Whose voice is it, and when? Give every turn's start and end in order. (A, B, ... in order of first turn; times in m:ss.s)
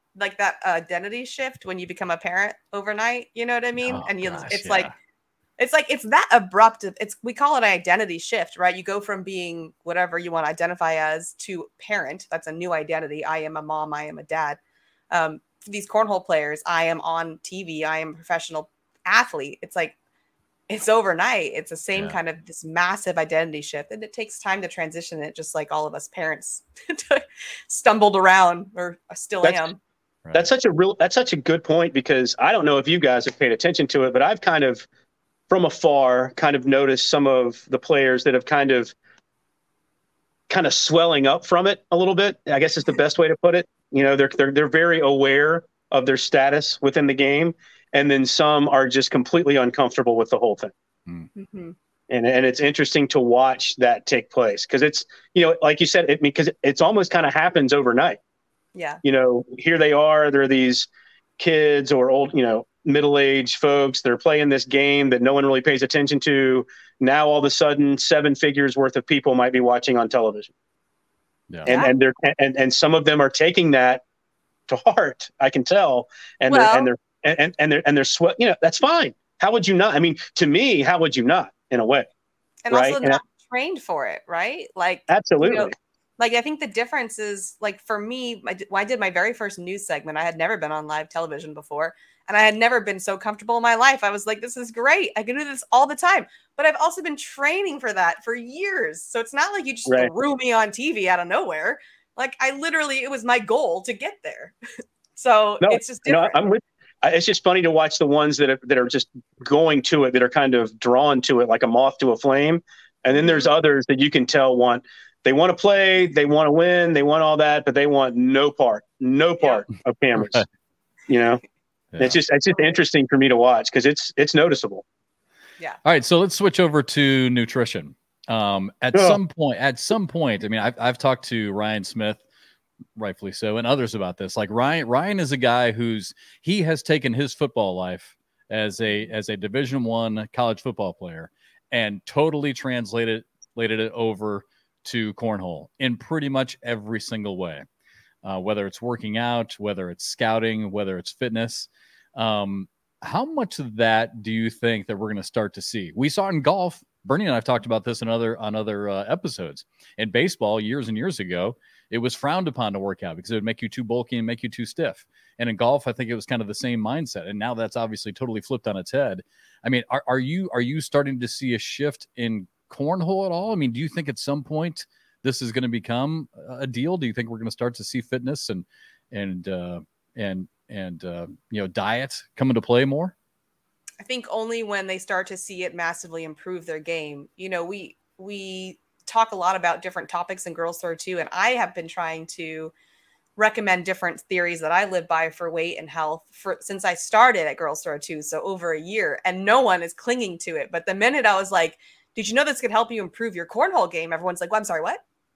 0:00.2-0:04.9 A
0:03.8-0:04.9 B
0:05.6-0:14.6 A
0:15.1-0:20.0 A
0:20.7-0:29.8 A
0:30.2-0:30.5 B
0:30.3-0:34.9 C
0:35.5-0:38.9 C
0:40.5-0:50.7 C
0:51.3-0:51.7 A
0:52.1-0:58.2 C
0:58.7-0:59.0 A
0:59.0-1:10.5 C
1:11.6-1:11.9 A
1:11.6-1:14.0 C
1:14.7-1:22.1 C
1:16.5-1:16.9 A
1:22.6-1:44.5 A
1:22.7-1:23.2 C
1:25.1-1:25.7 C
1:45.1-1:46.4 A
1:45.6-2:00.4 C
1:53.1-1:53.5 A
2:00.2-2:00.4 B
2:01.1-2:01.4 C
2:01.9-2:02.2 B
2:02.0-2:04.8 C
2:05.8-2:12.2 B
2:08.9-2:09.2 C
2:13.0-2:27.6 B
2:28.2-3:03.1 B
3:04.0-3:12.7 A
3:13.4-3:25.0 A